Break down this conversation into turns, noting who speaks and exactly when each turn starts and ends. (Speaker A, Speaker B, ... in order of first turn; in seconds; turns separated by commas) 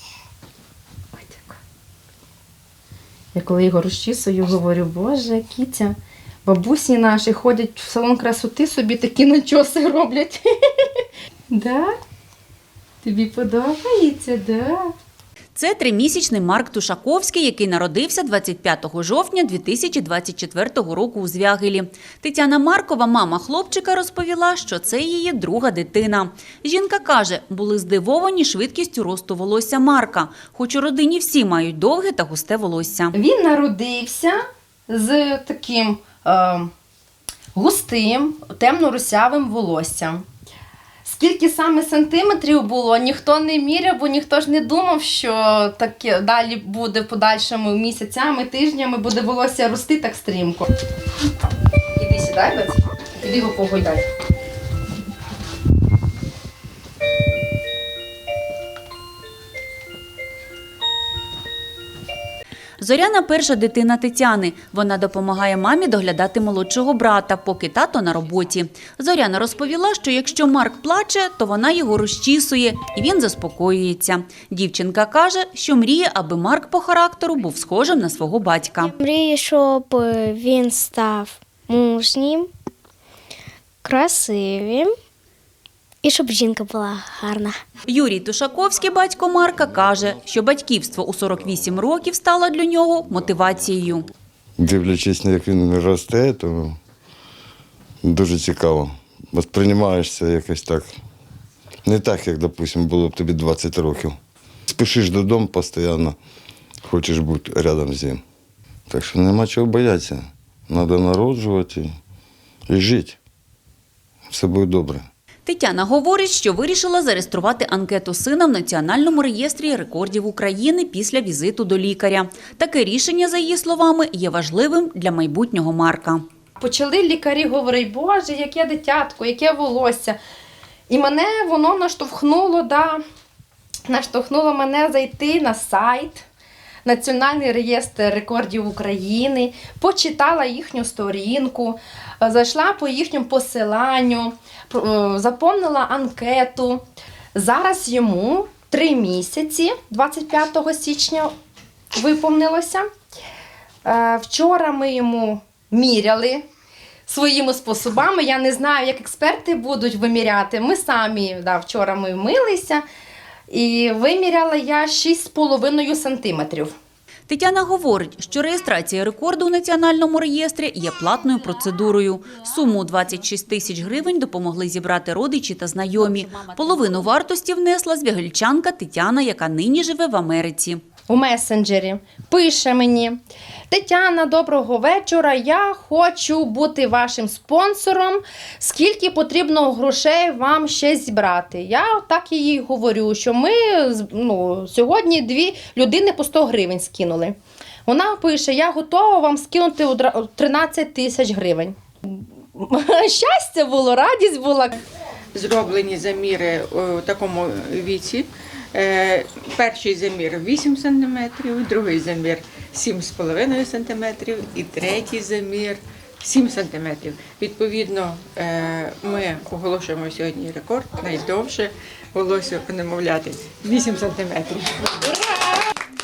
Speaker A: 1.1-1.6, Speaker A: 3.3-10.4, Speaker A: 11.5-11.9, Speaker A: 13.0-14.9, Speaker B: 15.5-33.1, Speaker A: 33.1-36.7, Speaker A: 37.5-40.2, Speaker A: 41.0-50.7, Speaker A: 52.0-54.0, Speaker B: 62.8-78.9, Speaker C: 79.0-82.5, Speaker C: 83.8-84.9, Speaker C: 86.0-87.6, Speaker B: 87.9-94.1, Speaker D: 94.6-96.8, Speaker D: 98.0-100.9, Speaker D: 101.8-104.2, Speaker D: 104.7-106.2, Speaker D: 106.8-108.2, Speaker D: 108.9-111.9, Speaker D: 112.7-113.2, Speaker D: 114.3-115.1, Speaker B: 115.5-126.2, Speaker A: 126.6-130.2, Speaker A: 130.9-133.0, Speaker A: 133.9-136.2, Speaker A: 136.8-146.8, Speaker A: 147.3-151.3, Speaker A: 151.9-152.9, Speaker A: 153.8-156.4, Speaker A: 157.1-162.8, Speaker A: 163.5-166.7, Speaker B: 167.3-180.8, Speaker A: 181.1-183.2, Speaker A: 183.7-197.3, Speaker A: 197.9-204.8, Speaker E: 205.3-225.1